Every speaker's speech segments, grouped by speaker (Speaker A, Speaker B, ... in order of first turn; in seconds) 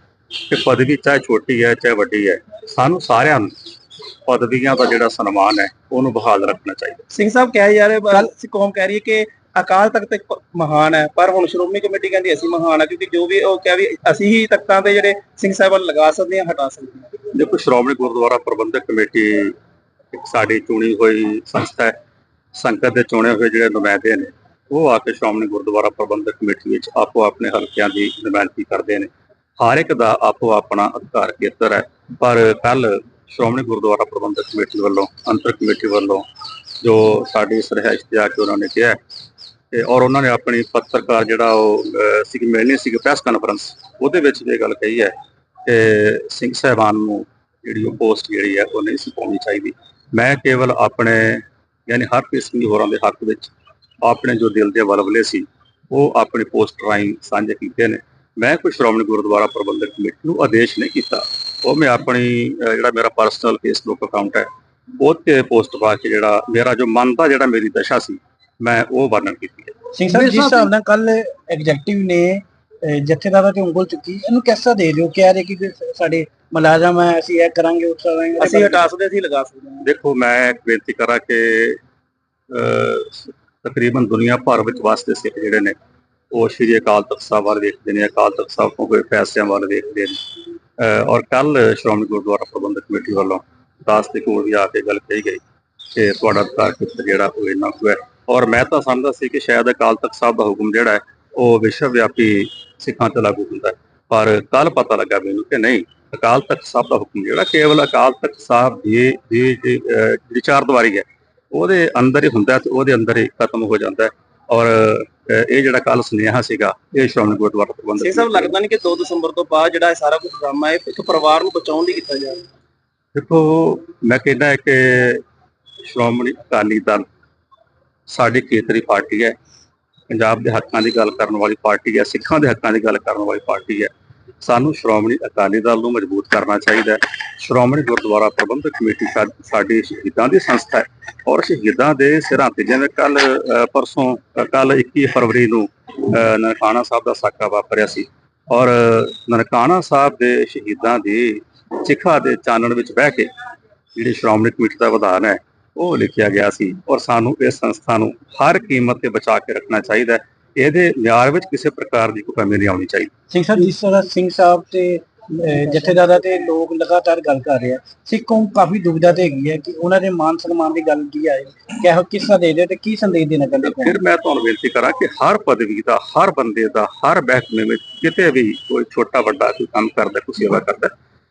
Speaker A: 0.5-3.5, 4.2-7.0, 17.3-19.6, 20.1-21.9, 22.5-36.2, 36.8-39.0, 39.7-45.1, 45.6-64.5, 65.0-69.8, 79.8-81.8, 82.5-85.8, 86.3-90.2, 90.8-95.4, 95.9-118.5, 123.1-125.2, 125.8-127.0, 128.1-129.3, 130.1-153.3, 153.9-163.1, 173.6-180.9
Speaker B: 7.1-17.1, 78.4-79.8, 118.0-122.5
Speaker C: 69.9-78.9, 163.3-174.0